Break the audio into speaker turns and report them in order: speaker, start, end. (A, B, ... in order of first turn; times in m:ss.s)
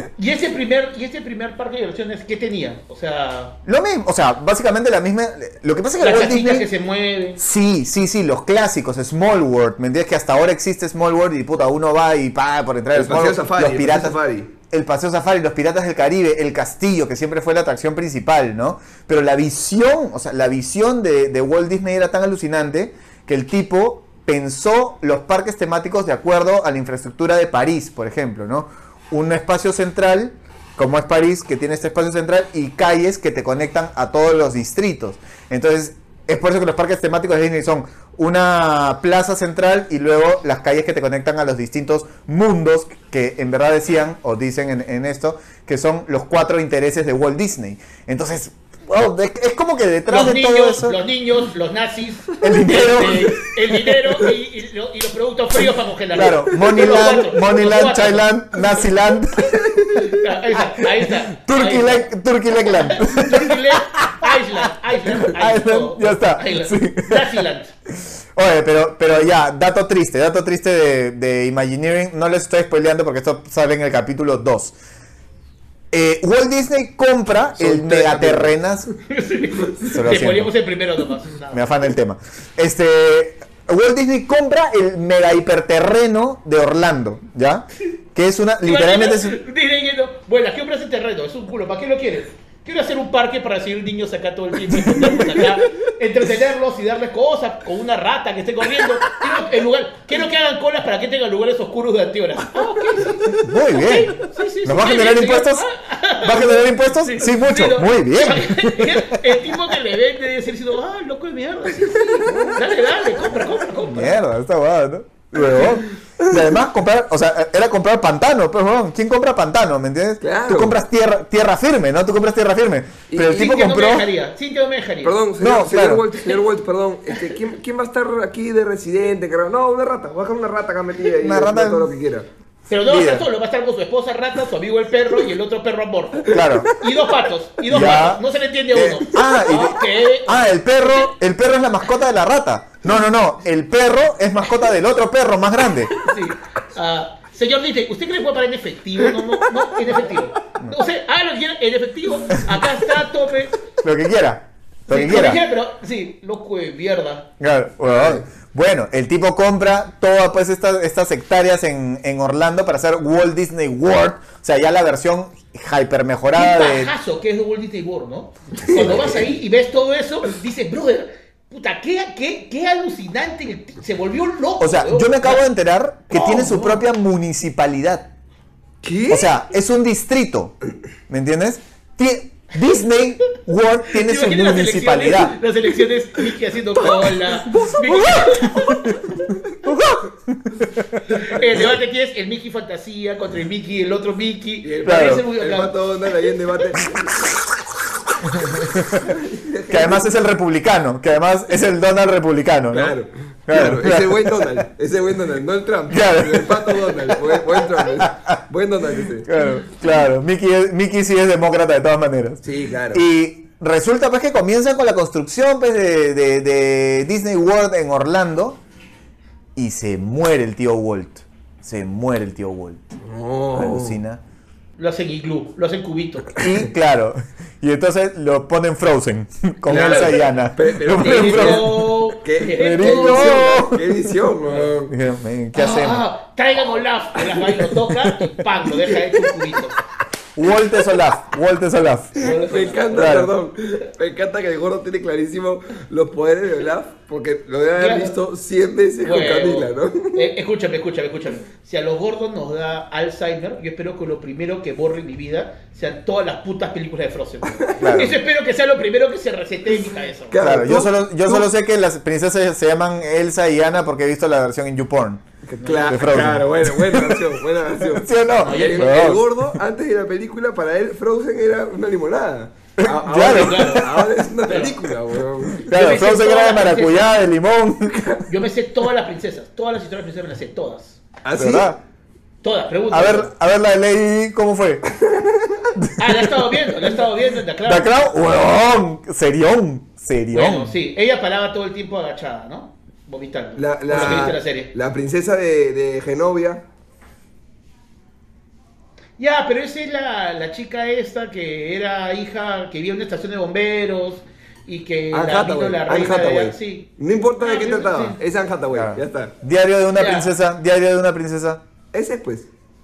0:00.2-0:03.6 A
0:03.6-0:06.7 B
0:06.0-0:07.4 A
0:07.4-0:14.2 B
0:12.9-0:14.5 C
0:14.7-0:51.0 B
0:50.1-0:58.6 A
0:52.4-0:54.1 B
0:56.1-0:59.8 B
0:59.5-1:00.0 C
1:00.0-1:02.1 A
1:00.5-1:07.4 B
1:02.6-1:07.7 A
1:08.3-1:14.7 B
1:15.9-1:18.9 B
1:17.6-1:18.5 C
1:19.0-1:21.7 A
1:19.9-1:20.5 B
1:21.5-1:29.4 B
1:28.6-1:54.2 A
1:34.8-1:35.2 B
1:43.4-1:45.7 B
1:46.2-1:49.2 B
1:51.8-1:52.6 C
1:53.8-2:04.1 B
1:55.4-1:56.3 C
2:00.2-2:00.8 C
2:03.1-2:03.4 C
2:03.2-2:05.2 A
2:05.0-2:12.3 C
2:05.4-2:06.0 B
2:11.2-2:11.9 B
2:12.7-2:21.1 A
2:12.8-2:13.2 B
2:16.3-2:16.7 B
2:16.3-2:16.8 C
2:17.7-2:18.2 B
2:18.7-2:25.9 B
2:26.0-2:33.6 A
2:33.8-2:35.4 B
2:34.9-2:37.3 A
2:37.4-2:46.9 B
2:37.8-2:38.2 C
2:46.3-2:55.5 A
2:48.6-2:49.3 C
2:54.6-2:58.1 B
2:56.1-2:56.8 A
2:58.8-2:59.3 C
2:59.1-3:00.5 B
3:01.1-3:05.4 B
3:03.9-3:09.3 A
3:07.1-3:07.9 C
3:07.8-3:09.0 B
3:09.6-3:11.2 B
3:11.1-3:15.7 A
3:14.6-3:17.2 C
3:14.8-3:15.2 B
3:18.2-3:19.1 B
3:18.4-3:20.0 C
3:19.7-3:23.0 B
3:22.7-3:29.3 C
3:23.5-3:24.6 B
3:25.9-3:28.4 B
3:29.2-3:38.6 B
3:32.4-3:33.0 C
3:39.6-3:42.8 B
3:43.0-3:44.0 C
3:43.5-3:44.2 B
3:44.8-3:46.4 A
3:46.4-3:51.9 B
3:49.7-3:54.9 C
3:49.7-3:50.2 A
3:51.0-3:53.5 A
3:52.5-3:54.1 B
3:54.9-3:56.0 B
3:55.5-3:59.8 A
3:57.9-3:58.3 B
4:00.4-4:02.3 B
4:02.2-4:03.2 A
4:02.2-4:10.3 C
4:02.9-4:03.3 B
4:07.8-4:08.2 A
4:09.0-4:20.4 A
4:17.5-4:18.0 C
4:17.8-4:18.2 B
4:20.3-4:21.5 C
4:20.4-4:25.2 B
4:25.5-4:35.7 C
4:25.6-4:26.2 A
4:25.9-4:29.5 B
4:28.4-4:29.0 A
4:32.8-4:34.1 B
4:33.1-4:33.9 A
4:34.4-4:34.8 A
4:35.5-4:38.2 B
4:35.6-4:37.1 A
4:38.0-4:38.2 C
4:38.3-4:41.0 A
4:41.2-4:41.7 C
4:41.3-4:41.8 B
4:42.4-4:43.3 A
4:42.9-4:44.8 B
4:45.0-4:45.7 C
4:45.8-4:46.7 B
4:46.0-4:48.1 A
4:47.6-4:50.7 B
4:50.3-4:54.7 A
4:53.6-4:56.6 C
4:59.2-5:06.9 A
5:05.1-5:09.3 C
5:07.4-5:08.2 A
5:08.7-5:11.6 B
5:10.0-5:10.3 A
5:11.9-5:12.5 C